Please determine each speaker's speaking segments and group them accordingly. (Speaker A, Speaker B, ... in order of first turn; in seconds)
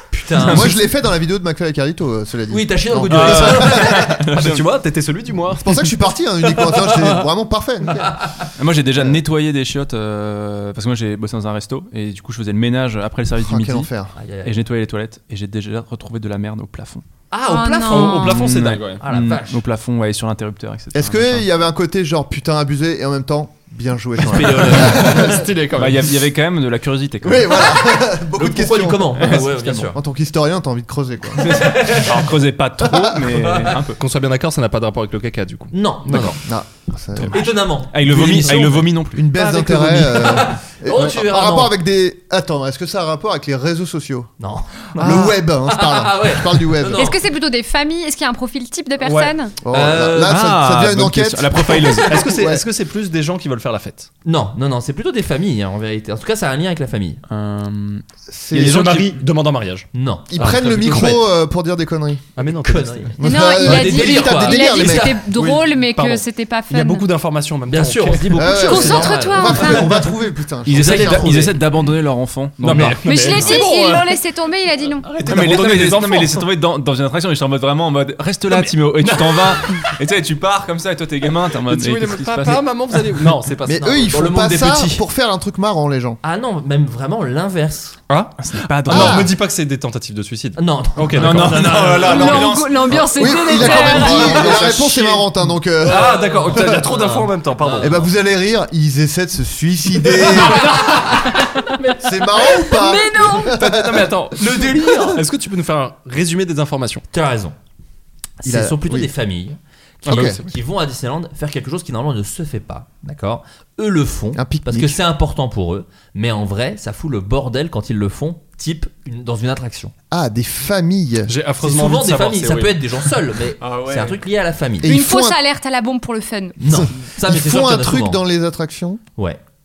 Speaker A: 0.1-0.8, 2.5-4.1, 8.0-8.3, 14.2-14.5, 17.3-19.6, 24.2-25.2, 28.3-30.0, 31.5-32.1, 35.7-36.4, 37.3-41.7, 44.4-47.2, 49.7-50.4, 54.2-57.2, 59.9-61.2, 62.6-65.0, 67.7-69.8, 70.7-71.6, 72.7-73.5, 83.7-85.0, 86.2-88.0, 90.5-92.5, 94.0-94.7, 96.1-98.0, 100.6-101.2, 104.6-105.2, 107.1-107.5, 108.4-119.9, 121.6-124.9, 126.6-128.2
Speaker B: 0.4-4.1, 5.6-8.2, 13.3-14.1, 20.9-25.4, 27.2-31.5, 32.9-33.2, 36.1-37.5, 39.0-44.3, 44.9-47.1, 49.6-52.6, 58.3-59.1, 60.3-62.2, 63.2-65.2, 68.3-71.4, 83.7-86.2, 88.9-89.3, 92.9-97.0, 97.8-100.9, 102.0-104.1, 108.4-109.1, 110.1-110.4, 114.3-115.0, 120.1-121.3, 124.8-125.4, 126.7-129.0
Speaker C: 3.1-4.6, 8.6-13.9, 14.4-17.0, 18.2-21.4, 25.8-27.7, 29.3-29.9, 31.8-34.0, 37.9-39.2, 50.2-52.2, 57.3-58.0, 58.5-59.1, 70.7-73.0, 75.2-83.3, 88.4-89.3, 91.1-92.6, 123.6-124.2
Speaker D: 4.1-5.8, 17.8-19.0, 24.9-26.1, 33.9-36.3, 45.0-45.3, 49.0-49.3, 52.1-54.1, 58.5-61.2, 62.4-63.2, 64.7-68.5, 72.6-74.2, 75.0-76.5, 78.5-79.9, 81.6-84.0, 88.1-92.6, 93.7-95.2, 95.8-98.1, 100.2-100.7, 103.4-107.0, 110.0-110.5, 121.3-123.1
Speaker E: 17.4-18.4, 46.9-49.5, 63.2-67.1, 68.5-70.0, 73.0-75.1, 92.0-94.6, 102.4-103.7, 124.8-126.5